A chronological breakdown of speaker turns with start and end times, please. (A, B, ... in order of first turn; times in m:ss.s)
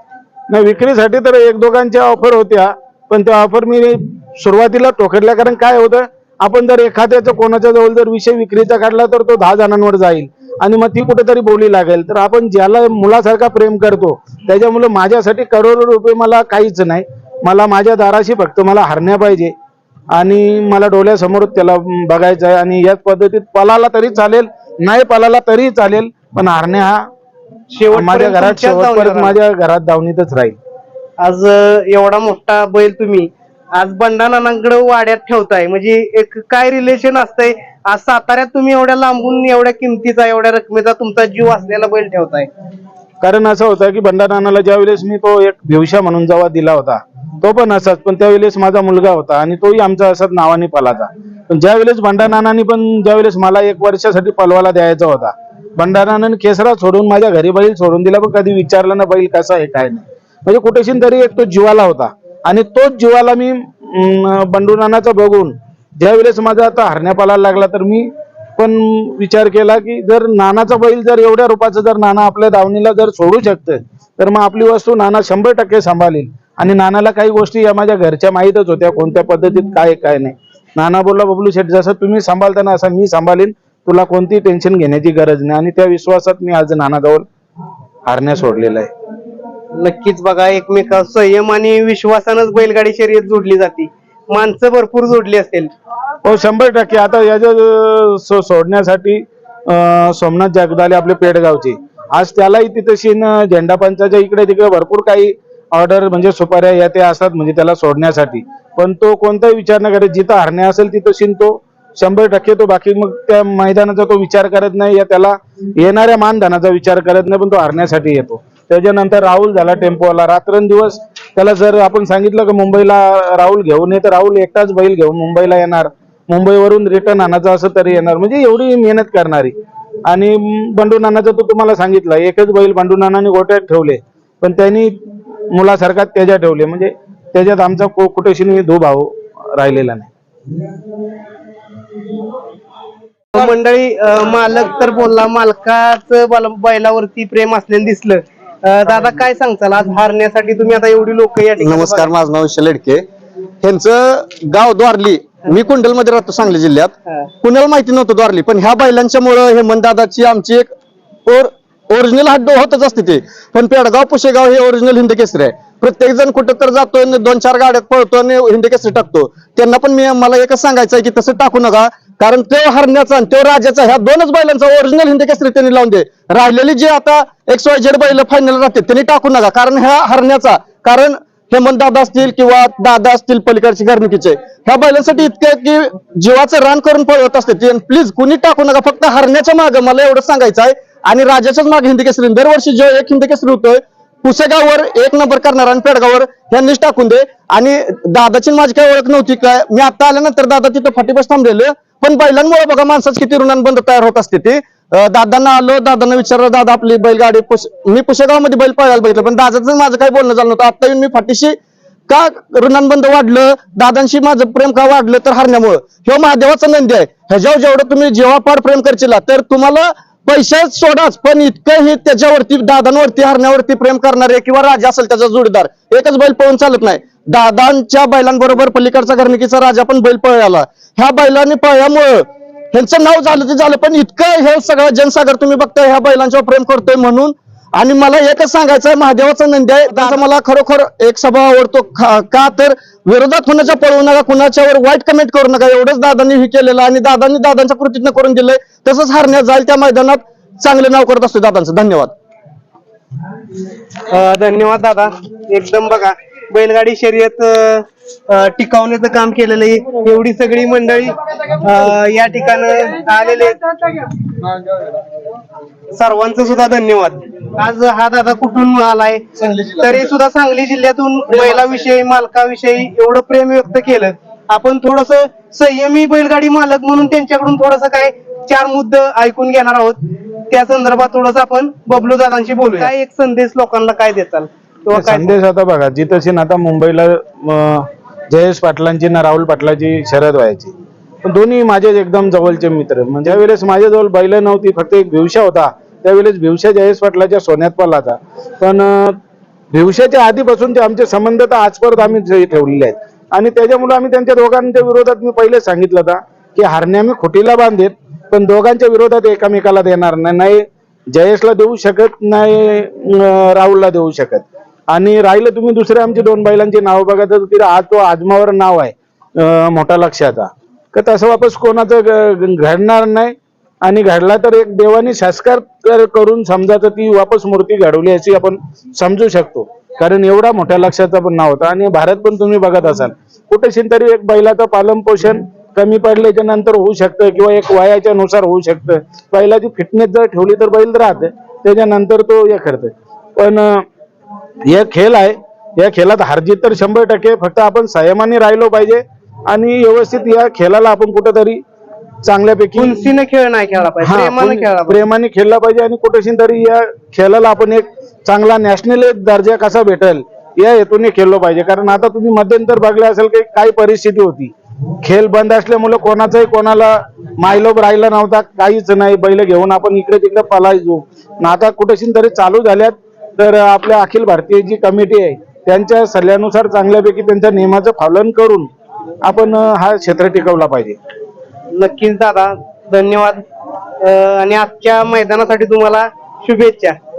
0:00.5-0:19.5 A
0:20.1-0:27.0 A
0:27.7-0:29.4 B
0:27.9-0:30.6 A
0:31.2-0:42.5 B
0:43.2-1:27.2 A
1:28.1-1:28.9 A
1:29.8-1:35.7 B
1:36.2-2:09.5 A
2:10.0-2:15.0 A
2:15.5-2:20.1 A
2:23.3-2:32.1 B
2:31.6-2:33.0 C
2:33.6-2:40.7 C
2:41.2-3:31.6 C
3:32.1-4:12.1 C
4:14.1-4:24.4 B
4:25.9-4:45.4 B
4:44.9-4:59.2 A
4:59.7-5:43.8 A
5:44.6-5:51.6 A
5:52.2-5:53.0 A
5:52.8-5:55.0 B
5:54.0-6:18.7 A
6:19.2-6:21.0 A
6:21.7-6:23.4 B
6:24.0-6:27.0 B